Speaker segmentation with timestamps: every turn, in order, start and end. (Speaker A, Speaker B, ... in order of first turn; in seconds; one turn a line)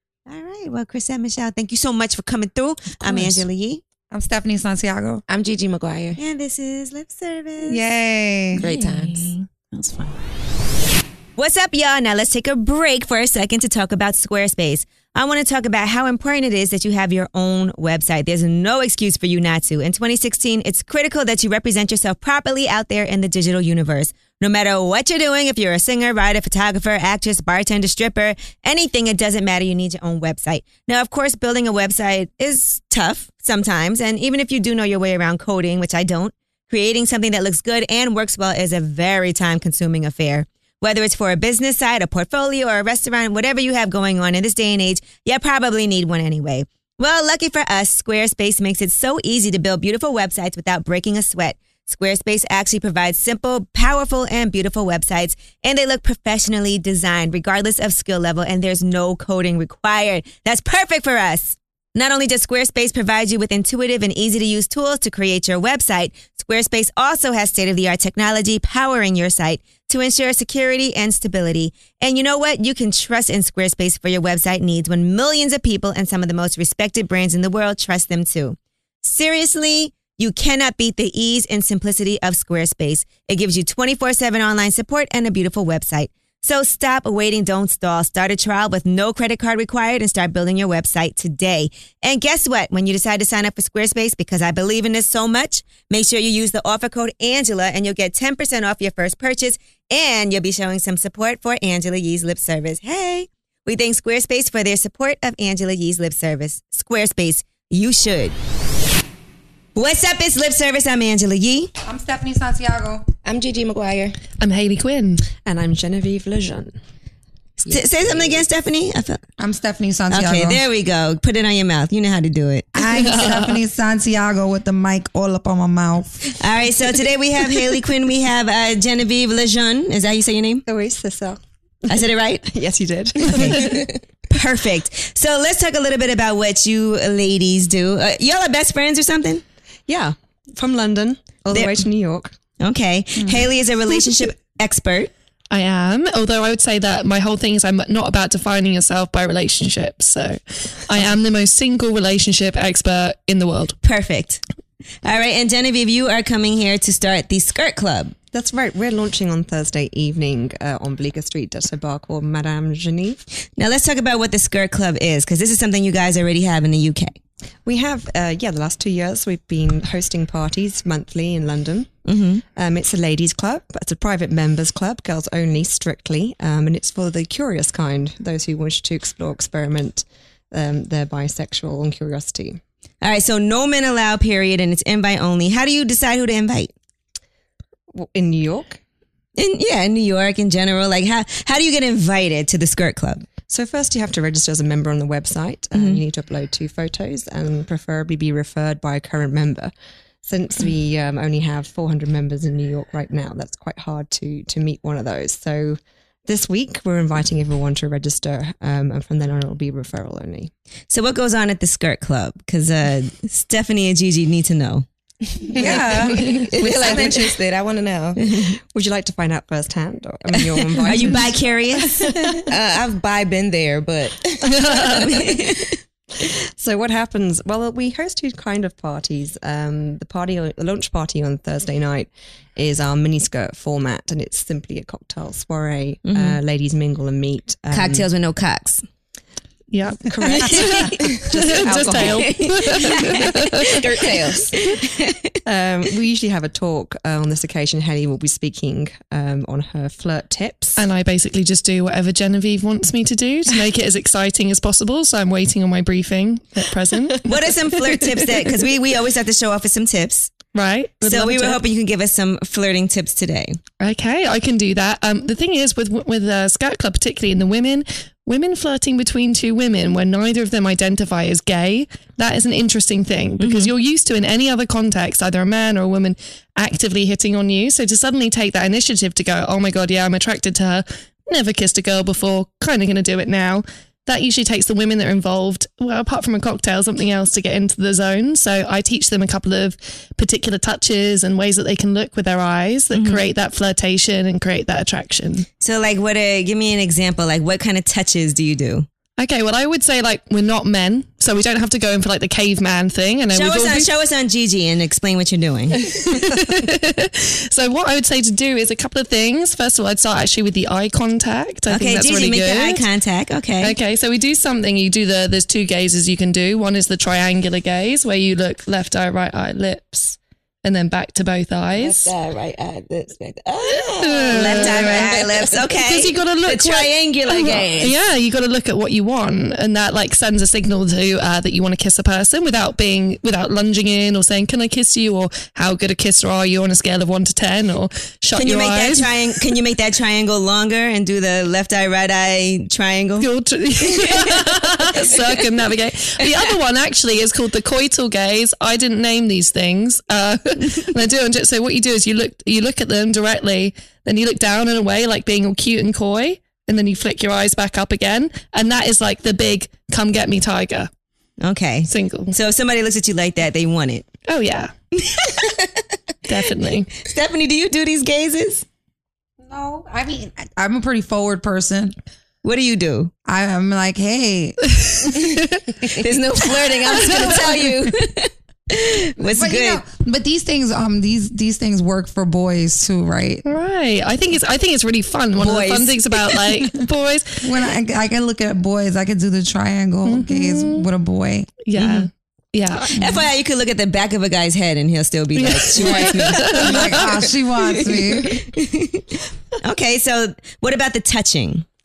Speaker A: 0.3-3.8
Speaker B: 2.9-3.5
Speaker C: 4.1-5.2
Speaker D: 5.3-6.2
Speaker A: 6.2-7.8
Speaker C: 7.6-8.6
Speaker B: 8.5-10.2
Speaker D: 8.6-9.3
Speaker A: 11.4-108.4
Speaker A: 109.8-111.7
Speaker C: 111.8-113.1
Speaker D: 113.2-114.2
Speaker E: 114.4-115.3
Speaker F: 115.5-116.8
Speaker A: 117.6-119.2
Speaker C: 119.4-120.6
Speaker A: 120.1-122.8
Speaker C: 122.7-126.3
Speaker E: 122.9-123.6
Speaker A: 126.3-130.7
Speaker F: 130.7-131.4
Speaker A: 131.9-132.5
Speaker F: 131.9-133.9
Speaker A: 133.2-139.4
Speaker F: 139.9-142.3
Speaker A: 141.5-141.8
Speaker A: 142.6-145.1
Speaker E: 145.5-153.8
Speaker A: 153.8-154.4
Speaker A: 155.0-158.2
Speaker F: 158.3-163.2
Speaker A: 163.6-167.2
Speaker F: 167.7-171.9
Speaker A: 172.1-172.4
Speaker F: 172.6-182.6
Speaker A: 183.0-186.7
Speaker F: 187.9-188.8
Speaker A: 189.4-193.3
Speaker F: 193.5-199.7
Speaker A: 195.8-196.0
Speaker F: 200.2-210.5
Speaker A: 210.9-214.9
Speaker C: 215.6-216.3
Speaker D: 215.6-218.3
Speaker A: 215.6-217.3
Speaker F: 215.6-217.3
Speaker A: 218.2-218.6
Speaker F: 218.5-222.1
Speaker A: 220.6-222.4
Speaker D: 222.5-224.8
Speaker E: 224.4-225.2
Speaker A: 224.8-225.8
Speaker F: 226.2-238.1
Speaker A: 236.1-236.4
Speaker A: 237.7-238.8
Speaker E: 239.7-243.9
Speaker F: 240.0-242.4
Speaker A: 240.2-244.0
Speaker D: 243.7-244.5
Speaker A: 244.5-245.3
Speaker F: 245.5-250.8
Speaker E: 250.8-258.6
Speaker A: 257.2-260.3
Speaker E: 260.5-261.6
Speaker A: 261.0-263.6
Speaker E: 263.8-295.5
Speaker A: 273.4-273.7
Speaker A: 292.9-293.2
Speaker A: 295.6-298.9
Speaker E: 299.2-303.9
Speaker A: 303.3-306.0
Speaker E: 305.7-312.9
Speaker A: 311.7-313.8
Speaker E: 313.6-322.1
Speaker A: 321.8-327.9
Speaker E: 323.8-339.4
Speaker D: 324.4-325.5
Speaker A: 338.4-343.3
Speaker E: 343.2-360.9
Speaker A: 343.9-345.4
Speaker A: 361.4-364.1
Speaker E: 361.9-362.4
Speaker E: 364.3-364.7
Speaker A: 365.0-365.8
Speaker E: 366.3-366.9
Speaker A: 366.6-368.6
Speaker C: 369.4-371.9
Speaker A: 372.4-373.1
Speaker C: 373.2-374.7
Speaker E: 374.8-375.9
Speaker A: 375.9-379.8
Speaker E: 376.6-377.6
Speaker C: 379.3-383.4
Speaker E: 383.5-387.5
Speaker A: 385.4-386.4
Speaker C: 387.4-391.5
Speaker E: 390.1-390.9
Speaker E: 391.7-393.2
Speaker A: 391.8-392.1
Speaker A: 392.8-401.7
Speaker E: 395.4-397.2
Speaker C: 395.8-398.4